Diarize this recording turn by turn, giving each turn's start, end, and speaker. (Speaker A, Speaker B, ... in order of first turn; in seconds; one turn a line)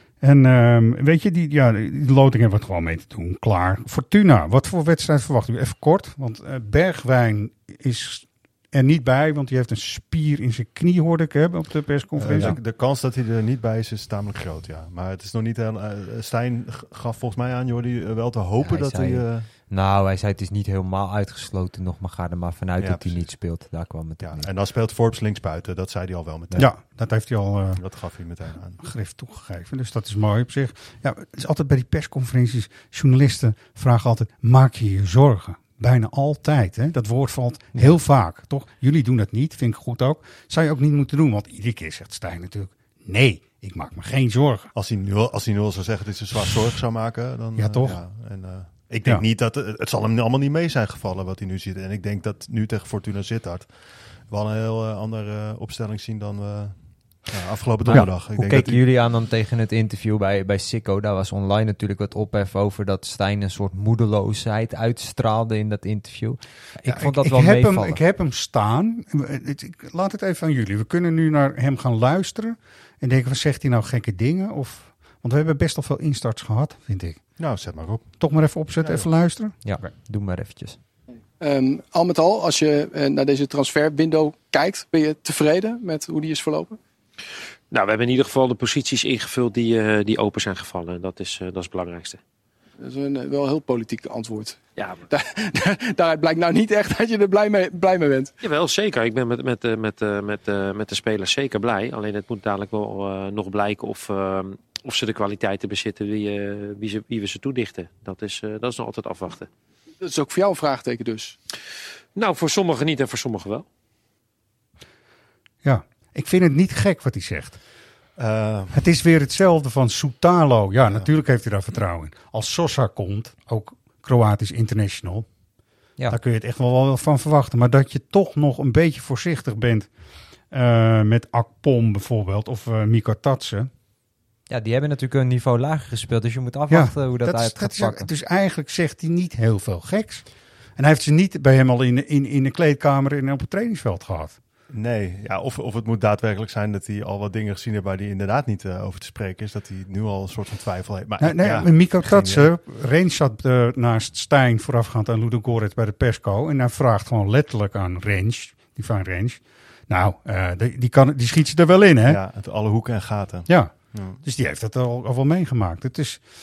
Speaker A: 0.2-12.6
Speaker B: 12.1-19.5
Speaker C: 18.6-24.5
Speaker B: 22.8-26.7
Speaker A: 26.6-27.8
Speaker B: 27.8-28.8
Speaker A: 28.8-44.7
Speaker B: 44.7-58.8
Speaker A: 47.5-48.0
Speaker C: 57.9-68.0
Speaker A: 66.8-77.5
Speaker B: 77.4-79.1
Speaker A: 78.2-79.9
Speaker C: 79.6-80.8
Speaker D: 81.4-86.8
Speaker E: 87.7-92.2
Speaker D: 92.8-98.3
Speaker E: 94.8-95.0
Speaker E: 98.4-109.5
Speaker D: 110.0-111.3
Speaker E: 112.2-113.7
Speaker A: 115.6-117.6
Speaker B: 118.2-118.8
Speaker A: 118.7-125.3
Speaker A: 126.1-129.9
Speaker A: 130.5-133.7
Speaker C: 134.5-138.1
Speaker A: 136.7-144.4
Speaker B: 144.7-152.5
Speaker A: 151.2-162.2
Speaker B: 162.1-164.2
Speaker A: 163.5-166.2